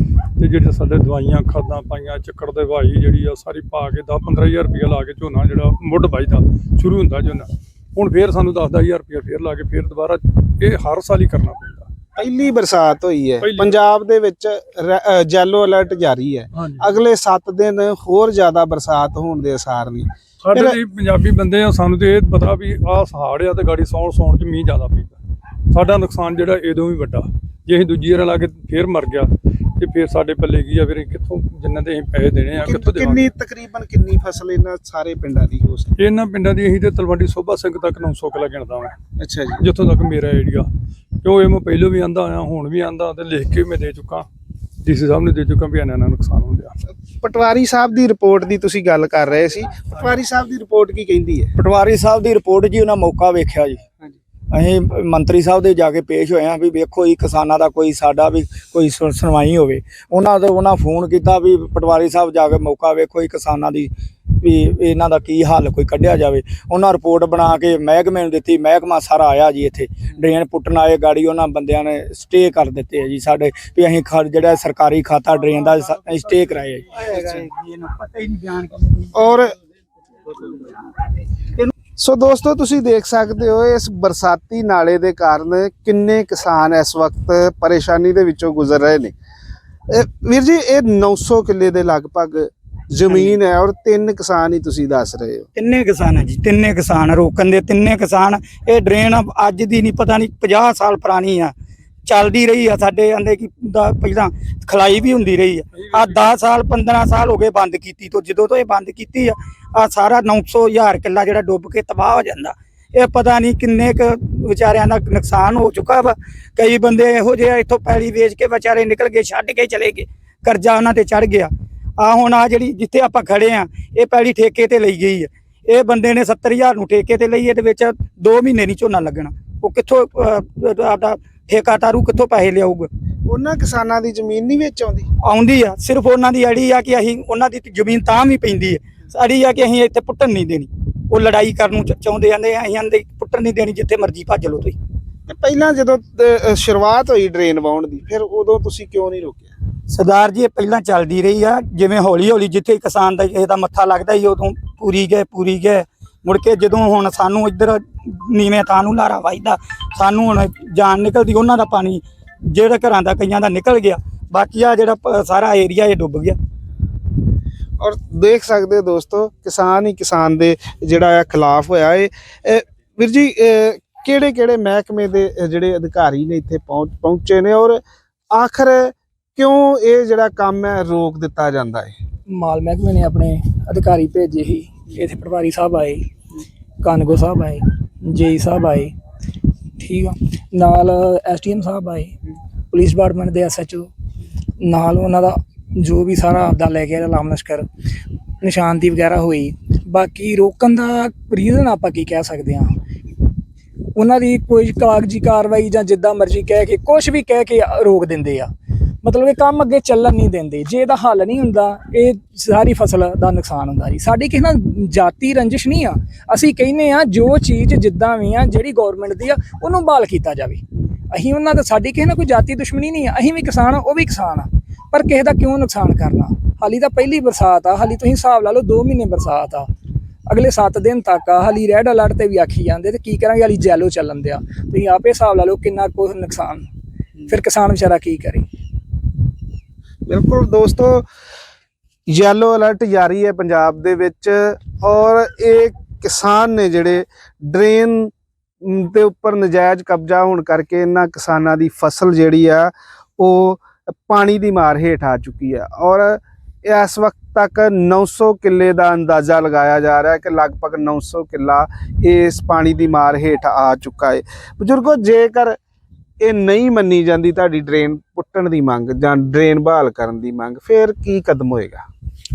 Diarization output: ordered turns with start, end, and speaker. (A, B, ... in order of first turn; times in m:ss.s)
0:00.4-0:11.9 A
0:12.2-0:20.8 B
0:13.4-0:13.8 A
0:16.6-0:16.9 A
0:20.4-0:25.2 A
0:25.7-0:33.2 A
0:32.6-0:36.0 B
0:36.0-0:39.0 A
0:39.2-0:39.6 B
0:39.6-0:40.7 A
0:41.2-0:44.3 A
0:44.8-0:46.7 A
0:47.2-0:51.5 B
0:51.6-0:53.8 C
0:54.5-1:19.0 C
1:19.1-1:19.6 B
1:20.4-1:20.8 C
1:22.0-1:29.1 B
1:29.9-1:35.5 B
1:33.1-1:33.4 C
1:35.6-1:41.5 C
1:42.1-2:12.9 C
1:45.7-1:46.3 A
2:13.3-2:15.1 B
2:15.2-2:24.8 C
2:25.3-2:29.5 B
2:29.9-2:46.4 C
2:47.8-2:57.8 B
2:58.3-3:02.0 B
3:02.3-3:06.1 D
3:06.8-3:08.9 D
3:09.8-3:12.1 D
3:12.7-3:13.9 D
3:14.6-3:17.7 D
3:18.4-3:22.8 D
3:24.0-3:28.5 D
3:29.0-3:49.7 D
3:50.3-3:56.7 D
3:57.3-3:58.5 D
4:00.1-4:01.0 B
4:02.1-4:08.1 B
4:08.6-4:25.6 B
4:26.2-4:31.9 B